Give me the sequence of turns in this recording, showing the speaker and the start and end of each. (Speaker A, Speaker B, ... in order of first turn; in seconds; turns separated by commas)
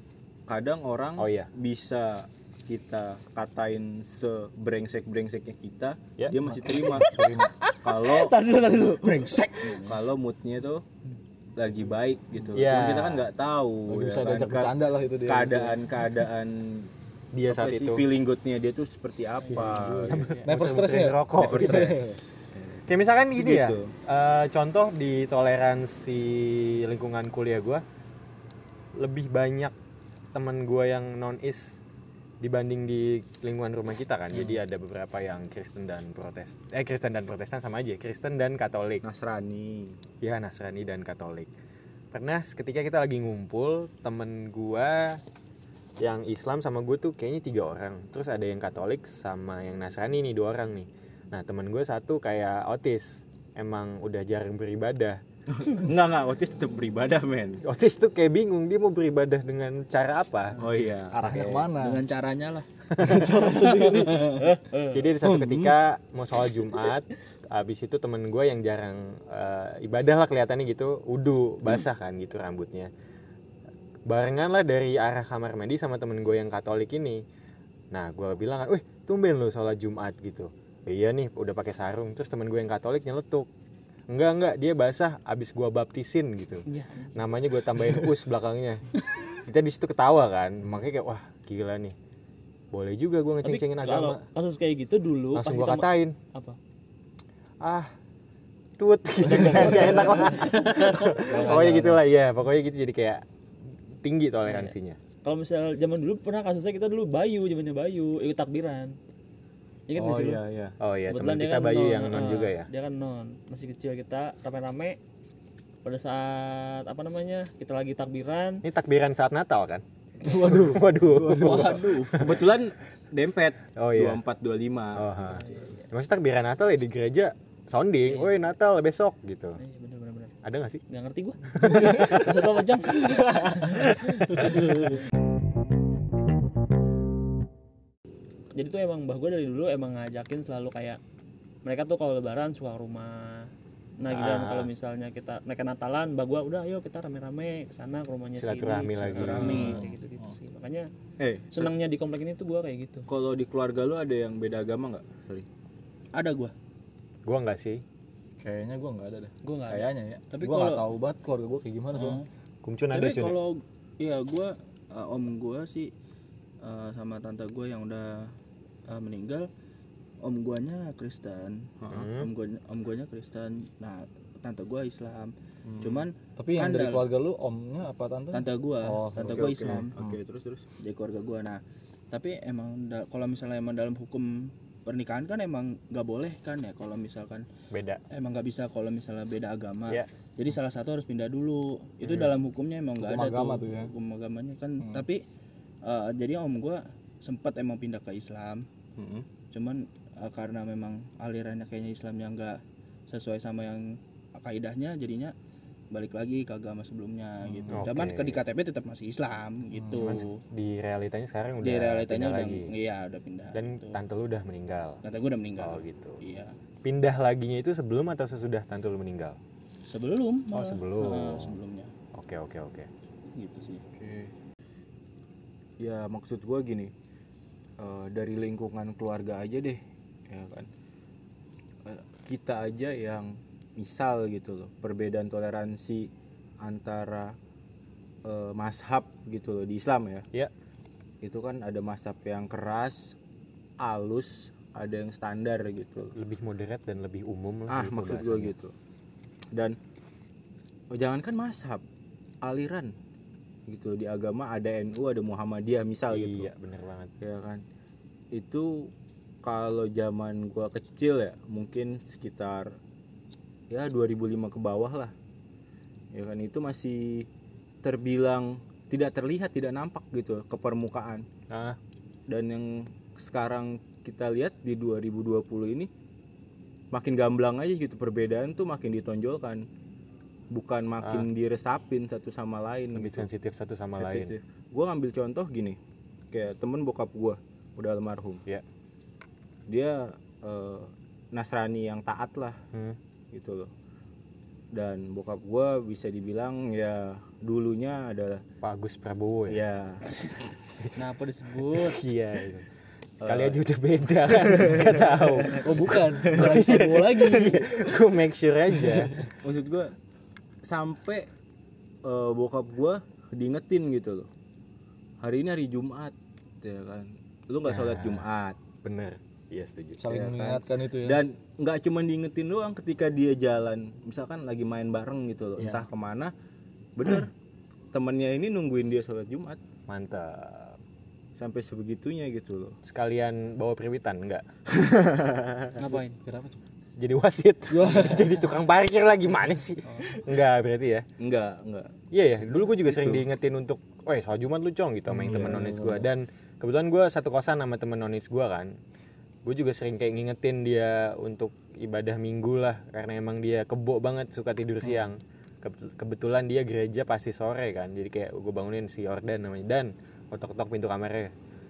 Speaker A: 0.5-7.2, Speaker B: 1.2-1.5, Speaker C: 6.4-7.6, Speaker A: 7.8-8.4, Speaker D: 7.9-9.9, Speaker E: 9.1-10.1, Speaker A: 9.7-10.8, Speaker A: 11.6-16.9, Speaker B: 12.5-13.3, Speaker C: 13.9-15.8, Speaker B: 17.3-18.0, Speaker A: 17.5-20.2, Speaker D: 19.4-20.5, Speaker C: 19.5-22.2, Speaker B: 20.1-22.2, Speaker A: 21.4-22.8, Speaker B: 22.9-27.8, Speaker A: 23.4-23.9, Speaker B: 29.0-29.7, Speaker B: 30.3-31.8, Speaker B: 32.4-39.0, Speaker A: 39.0-40.0, Speaker B: 40.2-41.5, Speaker B: 42.1-45.2, Speaker B: 46.0-55.2, Speaker A: 55.6-57.6, Speaker B: 57.6-60.6, Speaker A: 60.6-61.3, Speaker C: 61.1-62.0, Speaker B: 61.3-61.7, Speaker E: 61.7-62.7, Speaker B: 62.9-63.5, Speaker C: 63.0-64.4, Speaker E: 63.6-64.5, Speaker D: 64.4-65.0, Speaker B: 64.9-72.9, Speaker B: 74.1-77.2, Speaker B: 77.9-83.5, Speaker B: 84.1-92.0, Speaker D: 86.7-87.2, Speaker B: 92.7-94.2, Speaker D: 93.4-96.6, Speaker B: 95.3-96.2, Speaker B: 97.6-97.9, Speaker B: 98.8-103.2, Speaker D: 99.2-101.2, Speaker C: 101.3-102.0, Speaker B: 104.0-105.0, Speaker D: 104.5-109.0, Speaker D: 109.9-110.4, Speaker A: 110.0-110.7, Speaker B: 110.8-112.7, Speaker D: 111.1-115.0, Speaker D: 115.8-118.6, Speaker B: 118.6-122.4, Speaker C: 120.2-122.0, Speaker E: 121.3-122.3, Speaker A: 122.1-125.2, Speaker B: 123.8-124.2, Speaker B: 124.9-129.6, Speaker D: 125.2-125.9, Speaker D: 128.1-128.3, Speaker D: 129.6-130.3, Speaker B: 130.4-130.8, Speaker D: 130.9-134.5, Speaker B: 131.5-132.5, Speaker B: 133.7-134.5, Speaker D: 138.6-141.0, Speaker D: 141.7-150.9, Speaker B: 144.1-144.7, Speaker B: 148.4-149.8, Speaker E: 149.1-149.8, Speaker C: 149.5-150.3, Speaker A: 151.2-151.7, Speaker D: 151.5-153.1, Speaker A: 153.1-155.5, Speaker E: 156.1-156.5, Speaker B: 157.2-157.8, Speaker C: 158.4-162.2, Speaker D: 159.4-159.9, Speaker E: 160.3-160.8, Speaker E: 161.9-162.3, Speaker B: 162.6-163.4, Speaker E: 162.9-165.9, Speaker E: 166.6-168.3, Speaker E: 168.9-169.5, Speaker E: 170.2-175.3, Speaker A: 171.8-172.1, Speaker B: 171.9-172.3, Speaker C: 175.7-180.2, Speaker E: 175.8-177.1, Speaker E: 178.3-179.9, Speaker A: 179.3-180.7, Speaker E: 180.7-187.5, Speaker B: 187.7-188.0, Speaker E: 188.1-195.2, Speaker C: 193.0-193.9, Speaker C: 194.8-195.1, Speaker E: 195.8-198.7, Speaker A: 199.0-199.3, Speaker E: 199.5-205.3, Speaker E: 205.9-210.4, Speaker C: 207.4-207.9, Speaker B: 207.7-208.4, Speaker C: 209.8-210.0, Speaker B: 210.0-212.7, Speaker E: 211.6-214.0, Speaker B: 213.5-215.0, Speaker E: 215.0-216.6, Speaker B: 215.6-216.2, Speaker B: 216.8-219.4, Speaker E: 219.9-221.9, Speaker B: 220.5-221.6, Speaker B: 222.1-222.9, Speaker E: 223.3-223.8, Speaker A: 223.9-224.3, Speaker A: 225.8-226.9, Speaker A: 227.8-230.7, Speaker A: 231.8-236.1, Speaker A: 236.6-237.3, Speaker A: 238.2-240.3, Speaker A: 241.2-243.2, Speaker A: 243.8-246.1, Speaker B: 246.2-248.5, Speaker A: 247.7-248.7, Speaker A: 250.9-251.8, Speaker A: 252.4-252.9, Speaker A: 253.7-256.5, Speaker B: 256.1-257.1, Speaker A: 257.2-257.6, Speaker A: 258.3-258.9, Speaker A: 259.4-262.8, Speaker A: 263.7-265.1, Speaker A: 266.1-267.3, Speaker A: 267.8-271.3, Speaker B: 271.5-271.8, Speaker A: 272.3-275.9, Speaker A: 276.9-279.7, Speaker A: 280.5-283.3, Speaker B: 281.0-281.3, Speaker B: 282.9-284.4, Speaker A: 284.0-285.8, Speaker A: 286.3-288.4, Speaker A: 289.7-292.6, Speaker A: 293.3-293.7, Speaker A: 294.7-298.4, Speaker B: 298.6-299.6, Speaker A: 299.5-300.1, Speaker D: 301.0-302.0, Speaker B: 301.7-302.7, Speaker A: 303.2-303.6, Speaker B: 303.2-309.3, Speaker A: 304.6-304.9, Speaker C: 305.5-307.9, Speaker A: 306.3-306.5, Speaker C: 308.8-309.1, Speaker A: 309.4-309.9, Speaker A: 310.6-311.3, Speaker A: 312.0-314.3, Speaker A: 315.2-318.6, Speaker B: 317.7-318.3, Speaker B: 318.8-320.1, Speaker C: 320.0-321.2, Speaker A: 320.1-326.3, Speaker C: 325.6-325.8, Speaker A: 327.0-327.3, Speaker A: 327.9-329.6, Speaker B: 329.9-330.8, Speaker A: 331.4-332.8, Speaker B: 332.9-334.4, Speaker D: 335.8-336.2, Speaker C: 335.9-336.6, Speaker B: 337.0-341.1, Speaker C: 337.7-338.5, Speaker A: 341.2-341.9, Speaker B: 342.1-348.7, Speaker A: 342.5-343.2, Speaker C: 345.1-346.1, Speaker B: 349.4-361.3, Speaker C: 354.9-355.1